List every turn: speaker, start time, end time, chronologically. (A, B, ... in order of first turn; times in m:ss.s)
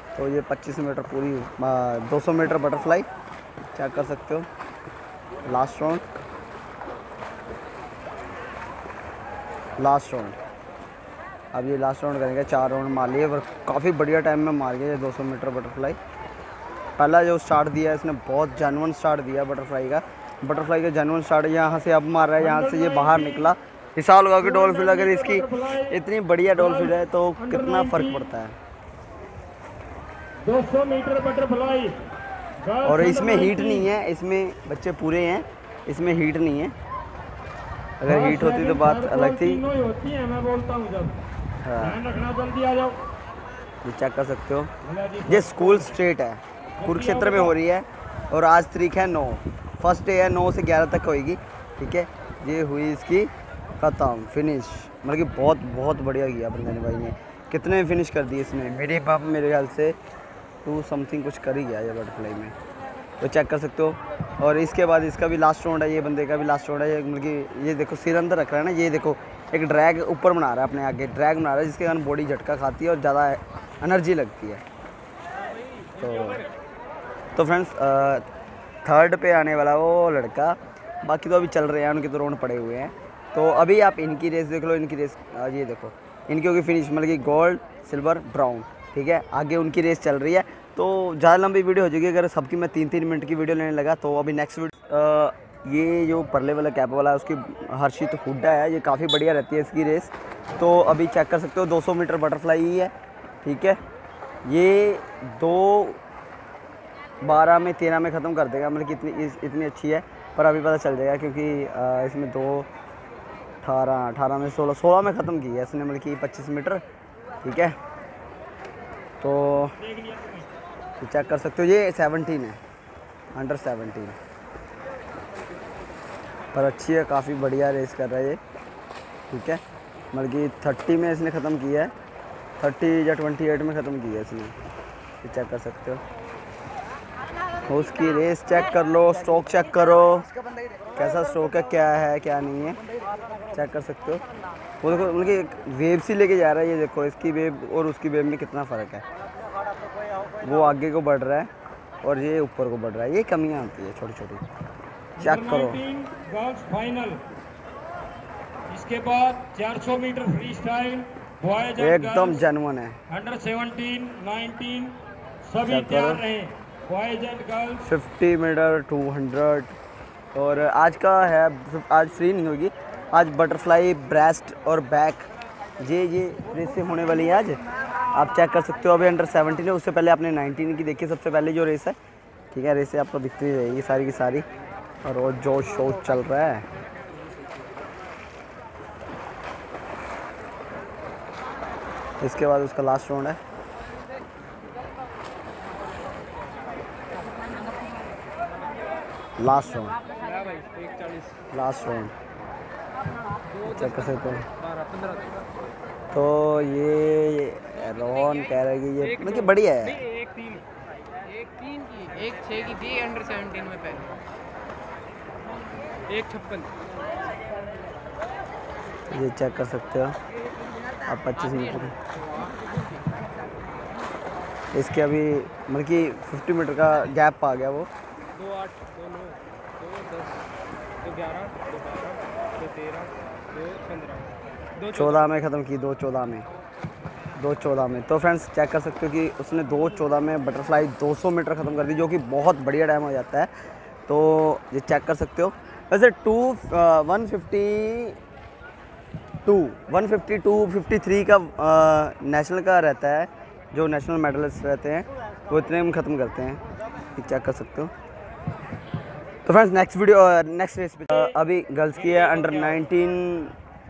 0:00.2-0:03.1 A
0:03.8-0:04.5 A
0:05.5-0:06.0 A
0:09.8-0:10.4 A
0:11.5-0:16.0 A
0:17.0-0:28.6 A
0:22.4-0:23.5 B
0:24.4-0:26.0 B
0:26.5-0:28.3 B
0:30.4-0:32.0 B
0:32.6-0:33.9 B
0:32.9-0:36.7 A
0:38.0-0:39.6 A
0:38.0-0:41.2 B
0:41.6-0:42.0 A
0:41.8-0:43.1 B
0:43.8-0:44.7 A
0:44.8-0:46.0 B
0:45.3-1:00.0 A
0:46.8-0:47.6 B
1:00.6-1:02.5 A
1:03.2-1:14.6 A
1:16.0-1:16.4 A
1:17.4-1:18.2 A
1:18.8-1:42.9 A
1:43.4-1:43.8 A
1:44.5-1:46.0 A
1:47.2-1:52.7 A
1:53.6-1:56.8 A
1:57.4-1:57.8 A
1:59.2-1:59.8 A
1:59.8-2:00.5 B
2:01.0-2:02.6 A
2:03.3-2:04.2 A
2:06.5-2:08.4 A
2:09.3-2:09.6 A
2:10.1-2:11.9 A
2:12.6-2:14.6 A
2:15.2-2:16.0 A
2:17.7-2:20.3 A
2:21.0-2:22.8 A
2:23.5-2:24.2 A
2:24.8-2:29.0 A
2:30.4-2:31.5 A
2:32.0-2:34.4 A
2:35.2-2:37.2 B
2:35.2-2:35.8 A
2:38.7-2:42.5 B
2:41.8-2:43.0 A
2:43.1-2:47.9 B
2:45.6-2:46.2 A
2:47.8-2:49.7 A
2:50.4-2:55.3 A
2:55.8-2:57.6 A
2:58.1-3:02.0 A
3:02.5-3:04.4 A
3:05.0-3:06.7 A
3:12.2-3:13.4 A
3:19.4-3:20.0 A
3:20.1-3:21.4 C
3:21.5-3:22.1 A
3:23.5-3:25.4 C
3:23.6-3:24.5 A
3:26.1-3:30.0 A
3:29.0-3:30.6 C
3:31.3-3:34.2 C
3:36.1-3:36.7 C
3:39.1-3:40.2 A
3:41.1-3:41.9 A
3:41.4-3:43.0 C
3:44.7-3:47.9 A
3:48.4-3:50.3 C
3:51.0-3:55.2 C
3:54.9-3:56.4 A
3:57.4-4:03.5 A
4:04.1-4:08.2 A
4:09.4-4:16.6 A
4:17.2-4:17.9 A
4:19.5-4:23.5 A